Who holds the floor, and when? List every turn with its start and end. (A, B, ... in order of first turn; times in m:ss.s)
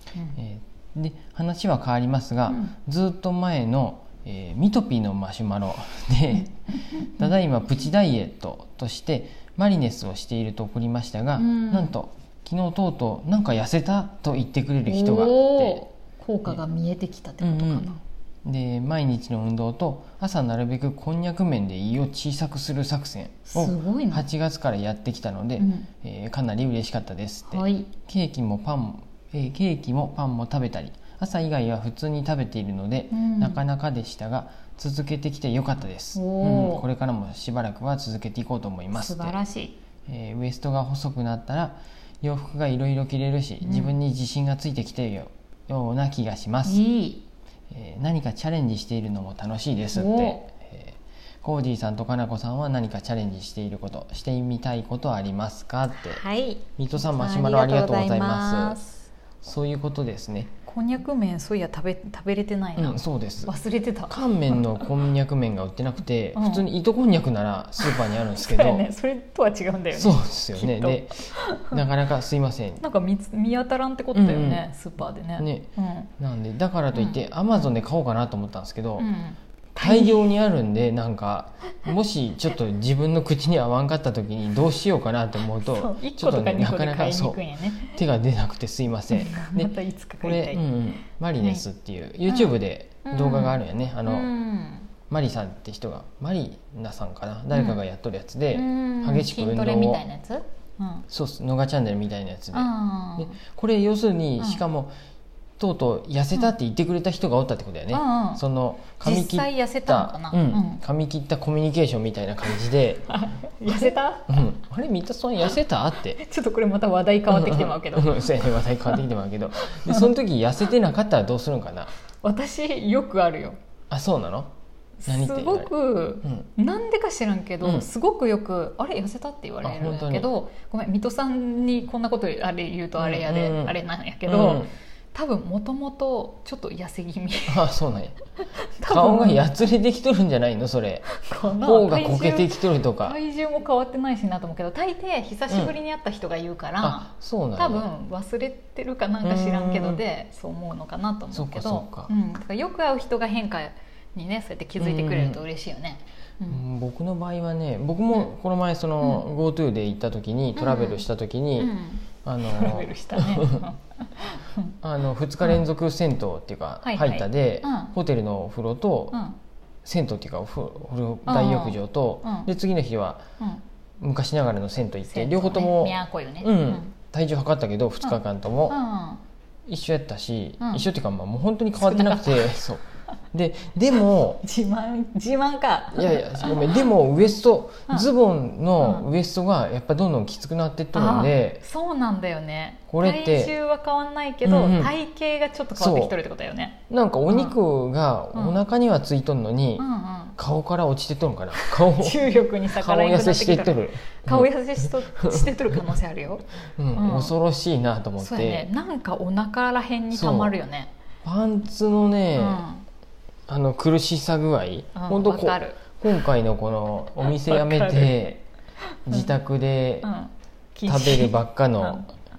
0:00.3-0:15.8 A
0:02.5-0:02.7 B
0:11.4-0:11.9 B
0:14.8-0:18.0 B
0:17.4-0:17.9 A
0:18.4-0:39.4 A
0:23.5-0:24.3 B
0:25.6-0:25.9 B
0:27.5-0:27.9 B
0:33.1-0:33.6 B
0:36.1-0:36.8 B
0:38.9-0:39.8 B
0:40.0-0:46.8 A
0:43.6-0:43.9 B
0:46.6-0:47.2 B
0:47.7-0:58.8 A
0:49.9-0:50.4 B
0:56.0-0:59.0 B
0:59.4-1:00.5 A
1:00.6-1:05.1 B
1:02.8-1:03.5 A
1:04.1-1:08.8 A
1:06.3-1:06.7 B
1:07.8-1:11.8 B
1:09.9-1:12.8 A
1:12.8-1:16.1 B
1:14.1-1:14.6 A
1:15.4-1:19.1 A
1:16.9-1:17.7 B
1:19.0-1:20.3 B
1:19.8-1:34.3 A
1:25.5-1:28.0 B
1:29.1-1:30.6 B
1:32.3-1:34.9 B
1:35.1-1:40.0 A
1:37.5-1:37.8 B
1:38.5-1:41.1 B
1:41.1-1:44.9 A
1:42.5-1:43.4 B
1:44.4-1:44.6 B
1:45.6-1:53.1 A
1:47.9-1:48.4 B
1:49.0-1:50.8 B
1:53.1-1:54.5 B
1:53.7-1:56.2 A
1:56.2-1:59.0 B
1:57.3-2:01.9 A
1:59.7-2:00.1 B
2:02.1-2:03.6 B
2:03.9-2:04.5 A
2:05.0-2:17.7 B
2:05.1-2:06.5 A
2:07.6-2:07.9 A
2:09.6-2:10.3 A
2:13.0-2:13.7 A
2:14.2-2:14.7 A
2:17.5-2:18.2 A
2:18.6-2:19.4 B
2:18.8-2:23.2 A
2:21.1-2:36.6 B
2:26.8-2:27.9 A
2:29.2-2:30.0 A
2:31.3-2:32.1 A
2:34.8-2:35.4 A
2:36.5-2:41.7 A
2:40.6-2:41.0 B
2:41.6-2:44.7 B
2:42.2-2:43.6 A
2:44.8-2:49.2 A
2:46.8-2:47.9 B
2:49.1-2:49.4 B
2:49.8-2:53.2 A
2:51.2-2:52.5 B
2:54.0-2:58.8 A
2:55.1-2:56.9 B
2:58.7-2:59.2 B
2:59.7-3:04.4 A
3:00.6-3:00.8 B
3:01.8-3:02.6 B
3:04.4-3:06.9 B
3:05.9-3:11.6 A
3:08.8-3:09.1 B
3:10.9-3:17.6 B
3:12.9-3:13.5 A
3:14.4-3:14.9 A
3:15.7-3:16.2 A
3:16.9-3:19.8 A
3:18.3-3:18.6 B
3:19.8-3:20.4 B
3:20.4-3:25.9 A
3:21.5-3:27.3 B
3:26.8-3:28.7 A
3:28.2-3:30.9 B
3:30.1-3:30.6 A
3:31.2-3:32.6 A
3:32.4-3:32.8 B
3:33.5-3:38.4 A
3:34.9-3:35.9 B
3:37.2-3:38.2 B
3:38.9-3:39.3 B
3:39.0-3:40.1 A
3:40.0-3:42.1 B
3:40.9-3:42.0 A